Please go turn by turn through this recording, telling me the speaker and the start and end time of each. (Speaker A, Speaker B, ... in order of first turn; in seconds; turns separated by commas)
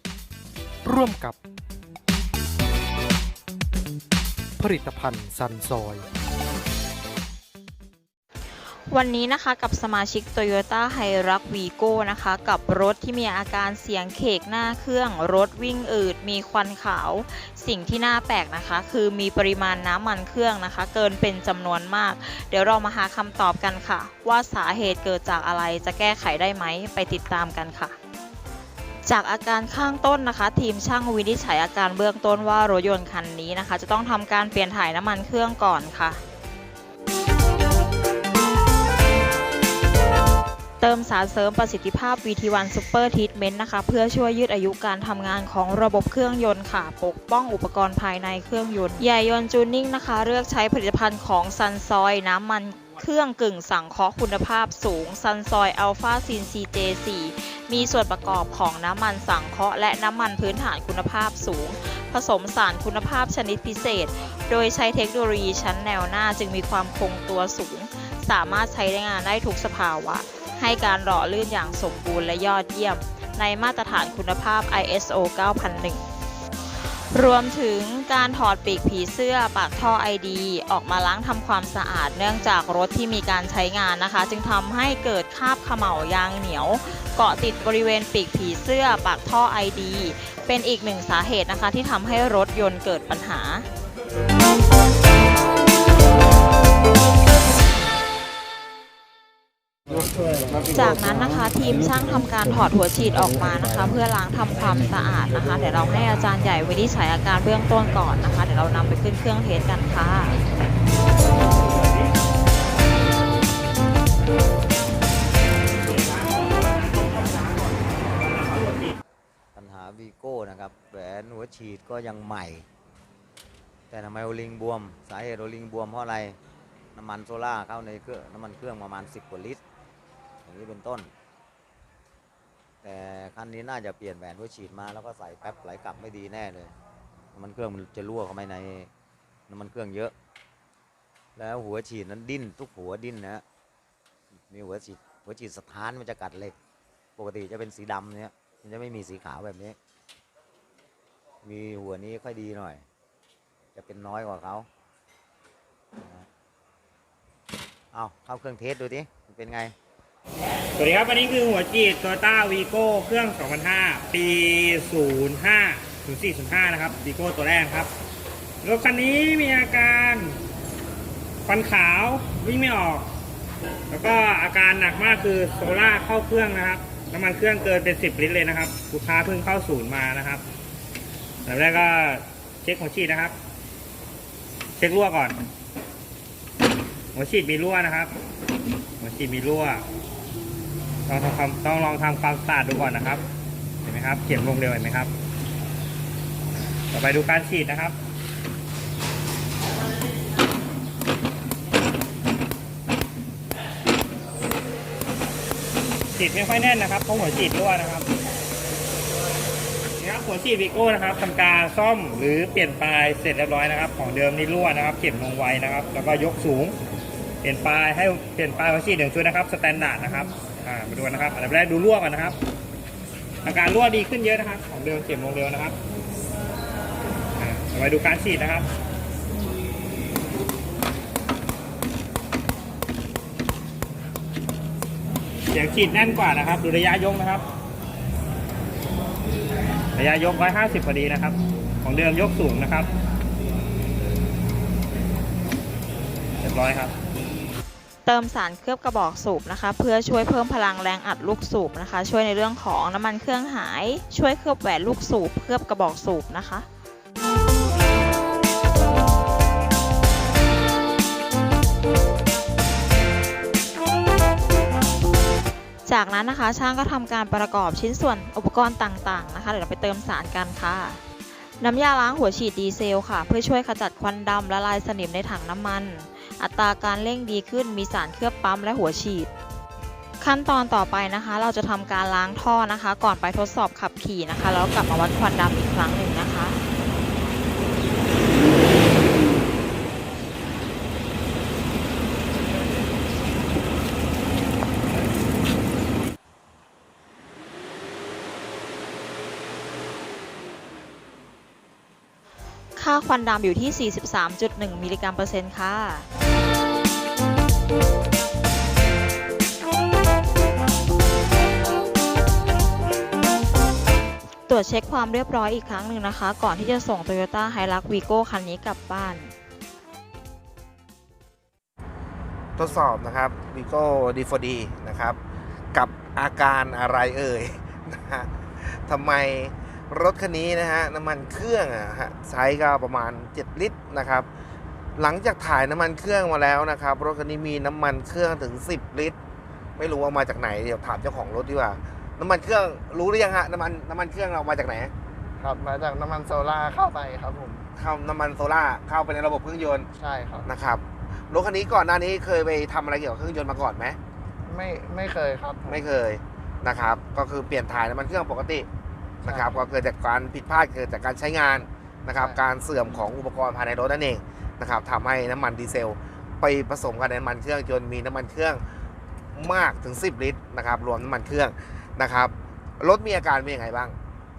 Speaker A: 0.8-1.4, Speaker A: 4.6-6.1, Speaker B: 8.9-28.0, Speaker B: 29.1-36.2, Speaker B: 40.8-76.0, Speaker B: 77.1-93.7, Speaker B: 100.7-110.4, Speaker C: 119.5-122.7, Speaker C: 123.9-126.4, Speaker C: 126.9-129.6, Speaker C: 130.4-131.1, Speaker C: 132.8-136.8, Speaker C: 137.3-138.9, Speaker C: 139.5-140.2, Speaker C: 141.4-143.4, Speaker C: 144.4-146.6, Speaker C: 147.2-149.8, Speaker C: 151.4-152.9, Speaker C: 153.8-154.7, Speaker C: 156.0-156.3, Speaker C: 157.9-159.8, Speaker D: 160.8-167.9, Speaker D: 168.6-170.4, Speaker D: 171.5-173.1, Speaker D: 173.9-180.4, Speaker D: 181.5-183.4, Speaker D: 184.8-185.4, Speaker D: 187.1-188.1, Speaker D: 189.0-189.8, Speaker D: 191.1-193.2, Speaker D: 193.8-195.1, Speaker D: 196.9-197.9, Speaker D: 206.2-208.1, Speaker D: 210.0-216.8, Speaker D: 217.4-222.4, Speaker D: 223.4-225.8, Speaker D: 227.4-228.7, Speaker D: 235.5-237.4, Speaker D: 240.0-242.9, Speaker D: 246.4-246.9, Speaker B: 248.1-256.7, Speaker B: 265.9-271.0, Speaker B: 271.6-279.3, Speaker B: 280.2-286.6, Speaker B: 302.8-306.1, Speaker B: 314.5-319.3, Speaker E: 322.6-325.2, Speaker E: 325.7-334.3, Speaker E: 335.0-339.2, Speaker E: 339.8-344.9, Speaker F: 345.4-347.7, Speaker E: 347.8-349.9, Speaker F: 350.0-350.5, Speaker E: 350.4-354.0, Speaker F: 354.5-355.9, Speaker E: 355.7-358.7, Speaker F: 359.2-359.6, Speaker E: 359.2-368.6, Speaker E: 369.4-373.9